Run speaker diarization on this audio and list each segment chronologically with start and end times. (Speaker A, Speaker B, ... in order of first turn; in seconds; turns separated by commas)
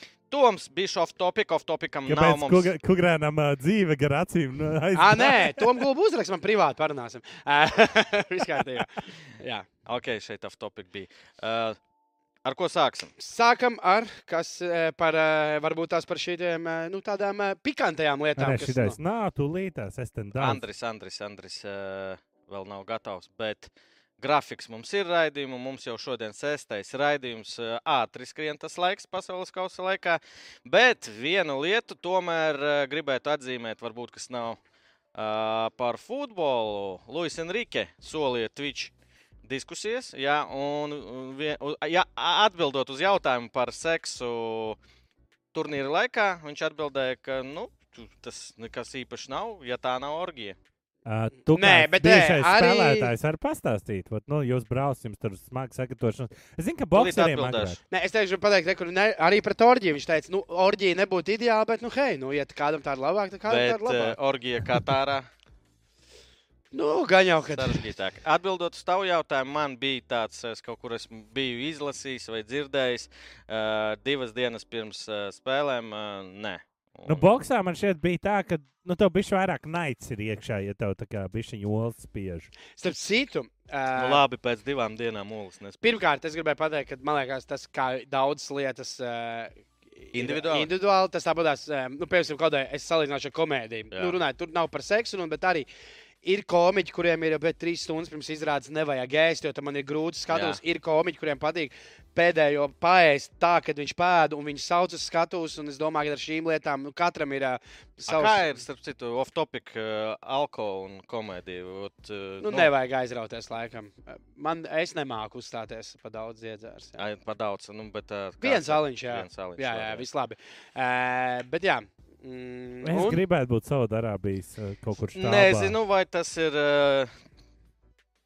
Speaker A: 0.3-2.7, Speaker B: 2.0-5.8, Speaker C: 4.9-9.7, Speaker A: 9.8-11.8, Speaker A: 12.4-13.1, Speaker C: 13.2-19.0, Speaker B: 18.4-20.6, Speaker A: 20.4-34.6, Speaker A: 35.1-38.9, Speaker A: 39.4-44.8, Speaker A: 45.5-50.5, Speaker B: 51.0-57.8, Speaker C: 51.5-53.1, Speaker A: 56.9-57.8, Speaker C: 57.9-64.2, Speaker A: 63.5-65.3, Speaker C: 66.7-67.8, Speaker A: 67.5-77.3, Speaker B: 77.1-82.5, Speaker C: 82.8-84.2, Speaker A: 83.9-85.8, Speaker C: 85.8-95.7, Speaker A: 90.1-90.7, Speaker A: 93.9-94.2, Speaker C: 96.2-108.5, Speaker A: 100.3-100.6, Speaker A: 108.1-112.7, Speaker C: 112.4-117.0, Speaker A: 117.0-120.0, Speaker C: 118.4-123.2, Speaker B: 122.8-125.7, Speaker A: 125.1-127.1